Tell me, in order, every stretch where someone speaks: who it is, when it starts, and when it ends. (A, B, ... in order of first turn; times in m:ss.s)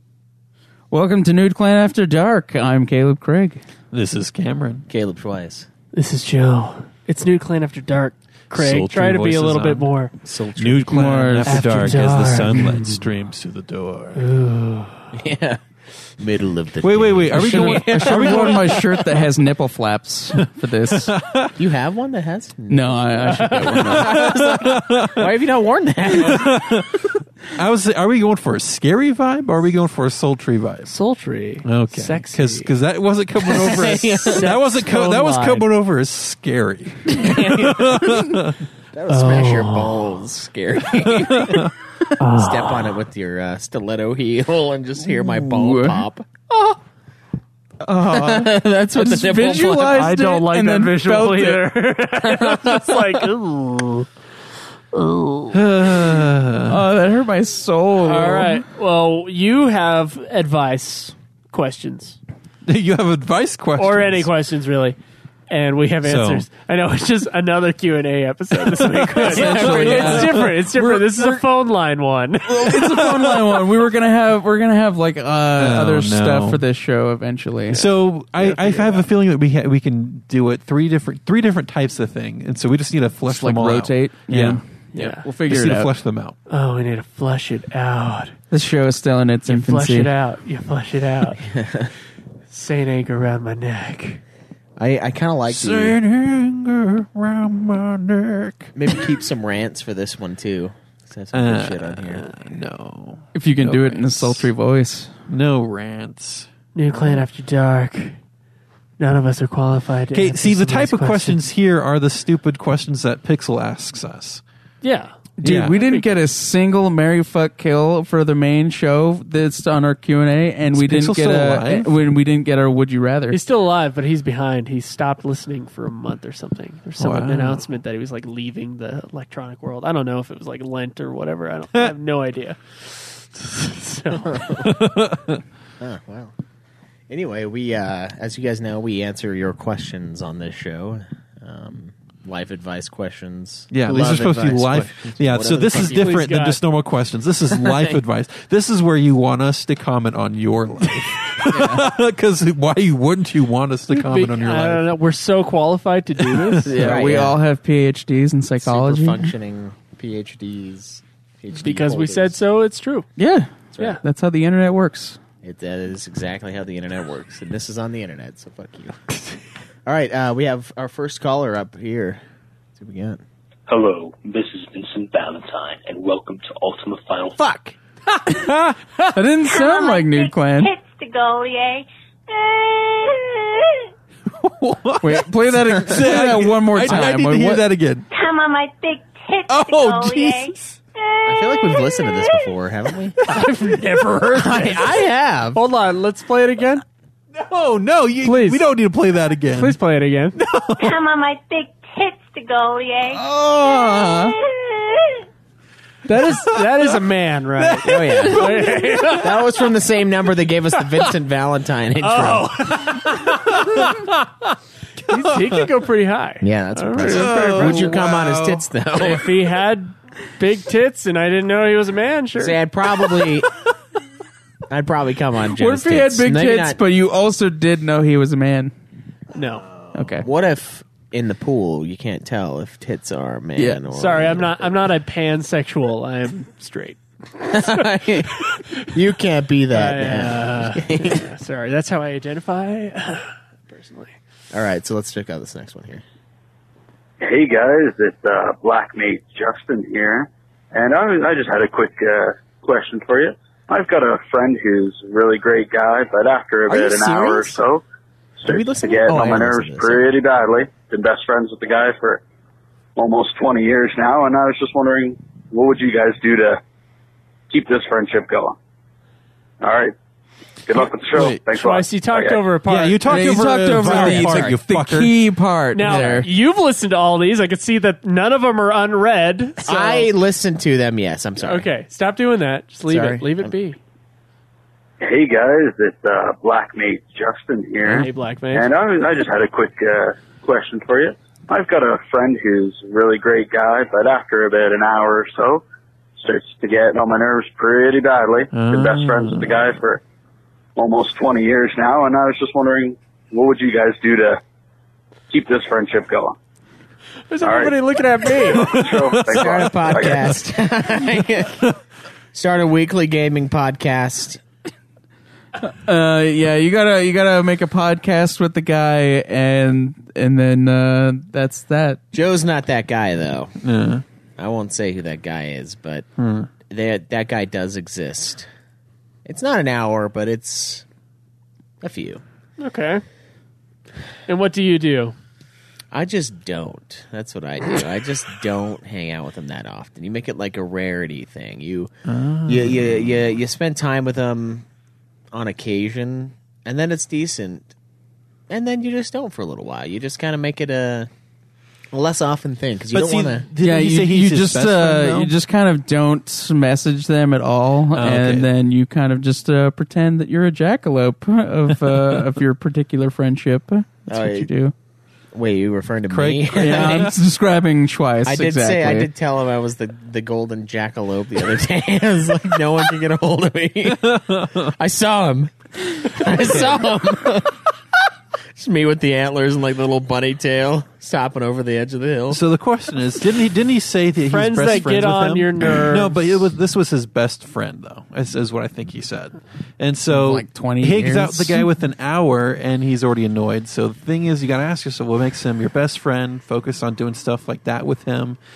0:00.9-0:03.6 A
0:03.9-0:04.9 B
0:04.9-0:05.7 C
0:05.9-0:10.1 D
0:08.5-0:09.9 B
0:10.3-0:11.0 C
0:10.6-0:14.2 B
0:10.9-0:11.7 A
0:11.5-0:13.0 D
0:14.2-0:15.1 D
0:15.1-0:15.6 C
0:16.2-0:18.9 C
0:16.8-0:18.9 B
0:17.3-0:21.1 A
0:20.9-0:21.5 B
0:21.6-0:26.5 C
0:22.7-0:24.2 A
0:23.8-0:25.3 B
0:26.2-0:30.9 B
0:30.9-0:32.7 D
0:31.6-0:38.6 B
0:33.4-0:34.5 C
0:33.5-0:35.7 D
0:37.2-0:38.1 C
0:38.9-0:41.7 C
0:39.1-0:40.2 D
0:41.1-0:41.7 B
0:42.2-0:43.0 D
0:42.3-0:46.8 C
0:45.1-0:46.0 A
0:47.8-0:51.6 A
0:48.1-0:50.0 C
0:49.9-0:54.1 D
0:52.2-0:53.2 C
0:54.9-0:55.5 D
0:55.5-0:56.8 B
0:56.7-0:58.6 A
0:58.0-1:02.2 D
1:02.7-1:04.3 B
1:03.8-1:05.0 D
1:05.5-1:12.7 D
1:06.0-1:06.5 B
1:08.7-1:11.4 B
1:09.3-1:10.4 A
1:09.4-1:10.1 C
1:12.5-1:17.8 A
1:12.6-1:13.6 B
1:15.6-1:16.6 B
1:17.7-1:19.1 D
1:17.7-1:24.6 B
1:23.3-1:25.9 A
1:24.9-1:25.3 D
1:25.4-1:26.4 B
1:26.5-1:28.4 D
1:28.5-1:30.1 A
1:29.5-1:31.4 D
1:31.4-1:31.9 C
1:32.5-1:34.2 D
1:34.8-1:36.0 C
1:35.5-1:39.1 B
1:38.8-1:42.3 C
1:41.3-1:44.5 B
1:43.4-1:45.1 A
1:45.3-1:46.5 B
1:46.8-1:48.2 D
1:49.0-1:51.4 D
1:50.1-1:54.4 B
1:54.8-1:56.1 D
1:55.4-2:03.4 A
1:55.4-1:55.8 B
2:00.7-2:01.9 B
2:03.3-2:14.4 D
2:07.0-2:07.6 B
2:14.3-2:14.8 C
2:14.6-2:15.4 B
2:15.8-2:16.3 C
2:17.1-2:26.3 C
2:23.7-2:34.9 B
2:25.8-2:26.6 D
2:27.5-2:28.0 C
2:31.5-2:31.8 C
2:33.9-2:36.7 D
2:36.2-2:36.7 B
2:36.7-2:37.4 C
2:36.7-2:39.3 A
2:38.6-2:42.4 C
2:41.5-2:43.1 D
2:43.2-2:45.2 A
2:43.7-2:44.0 C
2:45.4-2:49.2 C
2:49.9-2:52.2 C
2:52.8-2:53.2 C
2:53.7-2:57.4 E
2:57.4-2:57.8 C
2:58.4-2:58.7 D
2:59.1-3:00.7 A
2:59.4-3:03.9 F
3:04.3-3:08.1 B
3:05.0-3:07.7 A
3:08.1-3:12.3 F
3:09.5-3:10.8 B
3:11.3-3:13.2 C
3:13.2-3:14.7 B
3:13.3-3:14.7 D
3:14.3-3:15.6 C
3:15.5-3:16.8 D
3:17.4-3:19.8 B
3:18.2-3:18.6 D
3:19.5-3:20.4 D
3:20.4-3:21.0 B
3:20.8-3:25.3 F
3:23.1-3:24.4 A
3:26.1-3:29.5 D
3:26.2-3:26.9 B
3:27.6-3:29.3 B
3:27.8-3:28.5 C
3:29.2-3:32.5 C
3:32.0-3:34.5 D
3:35.1-3:37.9 D
3:35.1-3:35.6 B
3:36.4-3:39.3 C
3:37.1-3:38.7 B
3:39.0-3:42.6 D
3:42.4-3:43.5 C
3:44.7-3:46.8 C
3:45.6-3:48.7 A
3:49.3-3:49.7 D
3:49.9-3:54.7 C
3:49.9-3:50.3 A
3:53.9-3:57.7 D
3:57.5-4:01.3 C
3:58.4-3:58.9 D
3:59.7-4:04.2 D
4:04.5-4:06.0 C
4:07.2-4:17.8 G
4:16.7-4:17.6 C
4:18.4-4:22.2 G
4:18.5-4:20.1 C
4:23.0-4:26.6 G
4:27.5-4:28.6 G
4:29.6-4:30.0 G
4:30.7-4:32.6 G
4:31.1-4:31.4 B
4:31.2-4:34.4 D
4:32.7-4:35.1 B
4:33.1-4:36.3 A
4:35.7-4:40.1 D
4:35.9-4:36.2 C
4:39.6-4:41.7 C
4:41.4-4:43.8 D
4:42.9-4:43.5 C
4:45.0-4:55.6 G
4:47.8-4:48.7 D
4:56.2-5:00.0 G
4:58.5-4:59.8 B
5:00.8-5:04.4 G
5:05.3-5:06.4 G
5:07.3-5:08.9 D
5:07.4-5:10.3 G
5:08.6-5:10.4 B
5:09.3-5:11.6 C
5:12.3-5:14.4 C
5:15.6-5:22.0 A
5:22.1-5:23.5 C
5:23.6-5:24.0 B
5:24.4-5:26.1 C
5:26.2-5:26.5 B
5:26.7-5:28.5 C
5:29.2-5:30.8 C
5:31.8-5:32.2 C
5:32.6-5:33.0 D
5:34.3-5:35.2 D
5:35.9-5:41.9 C
5:42.1-5:42.9 B
5:42.5-5:44.6 C
5:45.3-5:47.7 C
5:48.5-5:51.1 C
5:51.9-5:53.5 C
5:52.9-5:55.3 B
5:53.6-6:04.7 A
5:57.9-5:58.5 B
6:04.1-6:04.5 C
6:05.3-6:07.1 C
6:06.1-6:07.2 B
6:06.5-6:09.1 A
6:08.2-6:17.6 C
6:14.0-6:14.7 B
6:18.6-6:22.4 C
6:22.3-6:38.4 B
6:24.2-6:26.5 D
6:30.1-6:31.7 A